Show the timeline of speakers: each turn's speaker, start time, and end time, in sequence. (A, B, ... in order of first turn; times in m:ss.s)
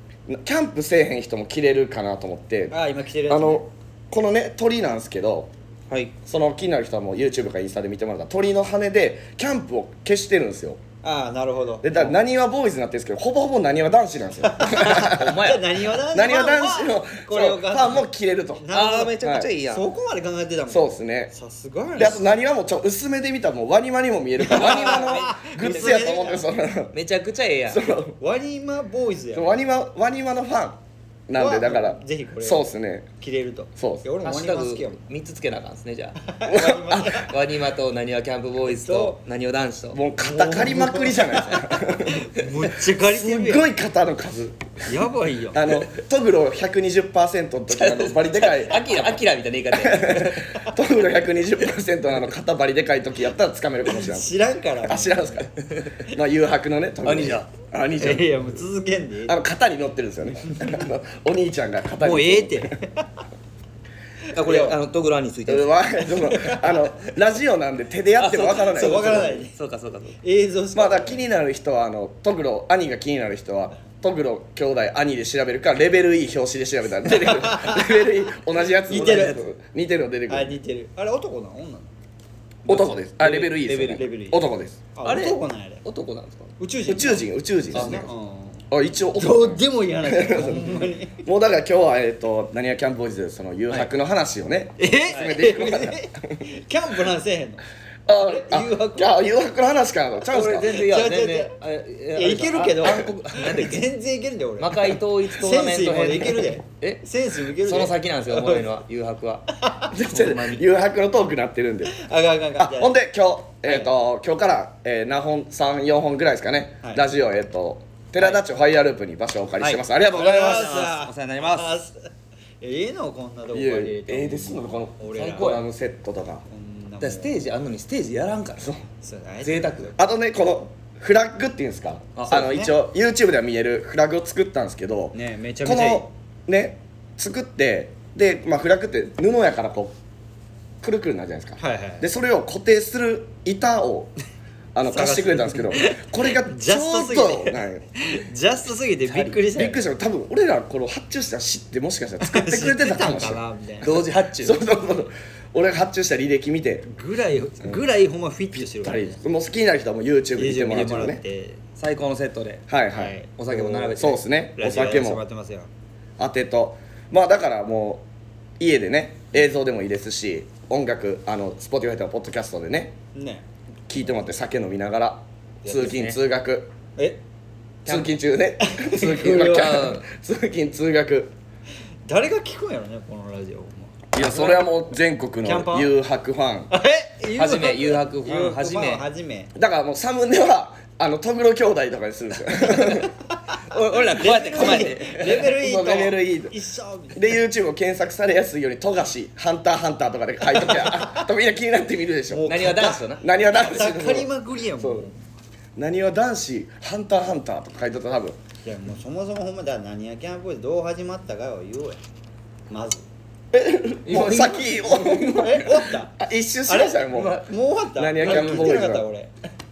0:00.3-0:02.7 A
0:02.7-0:03.6 B
0:03.3-0:05.5 A
0:06.2-0:10.8 A
0:11.0-0:11.9 B
0:11.8-0:15.4 A
0:14.4-0:22.3 B
0:15.1-0:15.8 C
0:16.1-0:18.6 A
0:18.7-0:19.8 C
0:19.2-0:19.5 A
0:20.7-0:21.3 A
0:22.0-0:26.9 A
0:24.4-0:26.4 B
0:24.5-0:26.2 C
0:26.9-0:27.8 C
0:27.7-0:28.2 A
0:28.2-0:29.6 B
0:29.3-0:33.1 A
0:31.3-0:32.7 B
0:33.2-0:35.0 B
0:33.8-0:34.0 A
0:34.2-0:36.2 C
0:36.2-0:37.3 B
0:36.4-0:37.3 A
0:37.2-0:40.0 C
0:38.8-0:39.2 B
0:39.9-0:42.3 A
0:40.2-0:43.7 B
0:43.0-0:44.6 A
0:44.8-0:45.6 B
0:45.5-0:49.2 A
0:47.7-0:50.5 C
0:49.7-0:54.3 A
0:53.9-0:55.4 B
0:54.8-0:55.5 A
0:55.7-0:56.0 C
0:56.0-0:58.5 A
0:57.0-0:57.5 C
0:58.0-0:59.4 B
0:59.3-1:02.7 A
1:00.5-1:00.8 B
1:02.0-1:03.2 B
1:04.3-1:05.8 C
1:04.3-1:04.8 B
1:05.4-1:09.5 A
1:06.2-1:06.6 B
1:08.2-1:10.2 C
1:08.4-1:09.5 B
1:10.2-1:11.2 B
1:10.7-1:20.6 A
1:17.1-1:18.0 B
1:18.9-1:19.4 B
1:18.9-1:19.4 C
1:20.3-1:21.9 B
1:22.6-1:24.8 A
1:22.6-1:24.0 C
1:23.9-1:24.4 B
1:24.9-1:25.8 B
1:25.0-1:26.5 C
1:26.6-1:31.2 B
1:26.8-1:28.1 A
1:27.7-1:28.1 C
1:28.7-1:36.4 A
1:34.8-1:39.1 B
1:38.1-1:40.7 A
1:40.3-1:43.9 C
1:40.5-1:41.6 B
1:42.2-1:48.6 B
1:44.6-1:50.6 C
1:49.6-1:49.9 B
1:49.9-1:51.9 A
1:51.9-1:52.9 B
1:52.6-2:00.7 A
1:53.6-1:53.9 B
1:59.6-2:01.8 C
2:00.1-2:02.1 B
2:02.6-2:05.5 B
2:03.5-2:06.4 A
2:05.0-2:05.6 C
2:06.5-2:07.4 B
2:07.0-2:08.7 C
2:08.6-2:08.8 A
2:08.9-2:10.0 B
2:09.4-2:09.9 C
2:10.0-2:19.9 A
2:12.2-2:12.5 C
2:12.3-2:12.7 B
2:15.1-2:16.1 B
2:20.8-2:24.1 A
2:21.6-2:22.1 B
2:24.7-2:27.8 A
2:24.9-2:29.8 B
2:29.1-2:33.4 A
2:32.2-2:34.1 B
2:33.8-2:34.6 C
2:34.4-2:36.9 A
2:36.8-2:39.2 B
2:38.5-2:41.2 A
2:40.4-2:41.6 B
2:41.8-2:42.7 C
2:42.7-2:43.1 A
2:42.9-2:44.0 B
2:43.3-2:44.2 C
2:43.9-2:45.2 A
2:44.5-2:45.7 B
2:46.2-2:48.0 A
2:48.6-2:52.9 A
2:53.1-2:53.5 B
2:53.9-2:56.7 A
2:55.6-2:56.0 B
2:55.8-2:56.2 C
2:57.8-2:58.1 C
2:57.8-3:01.3 A
2:58.6-2:59.8 B
2:59.2-3:00.0 C
3:02.0-3:04.6 B
3:04.1-3:06.7 A
3:05.4-3:05.9 B
3:06.7-3:09.5 B
3:07.3-3:09.0 C
3:09.5-3:13.1 A
3:12.8-3:13.1 B
3:13.7-3:15.5 C
3:14.0-3:17.4 B
3:15.4-3:16.6 A
3:17.1-3:25.0 A
3:20.6-3:21.1 B
3:22.3-3:25.3 B
3:22.5-3:23.2 C
3:25.8-3:28.4 A
3:28.6-3:32.0 B
3:32.7-3:33.0 B
3:33.5-3:37.4 A
3:34.0-3:35.2 C
3:35.0-3:36.1 B
3:36.7-3:39.3 B
3:38.0-3:39.1 A
3:38.2-3:38.8 C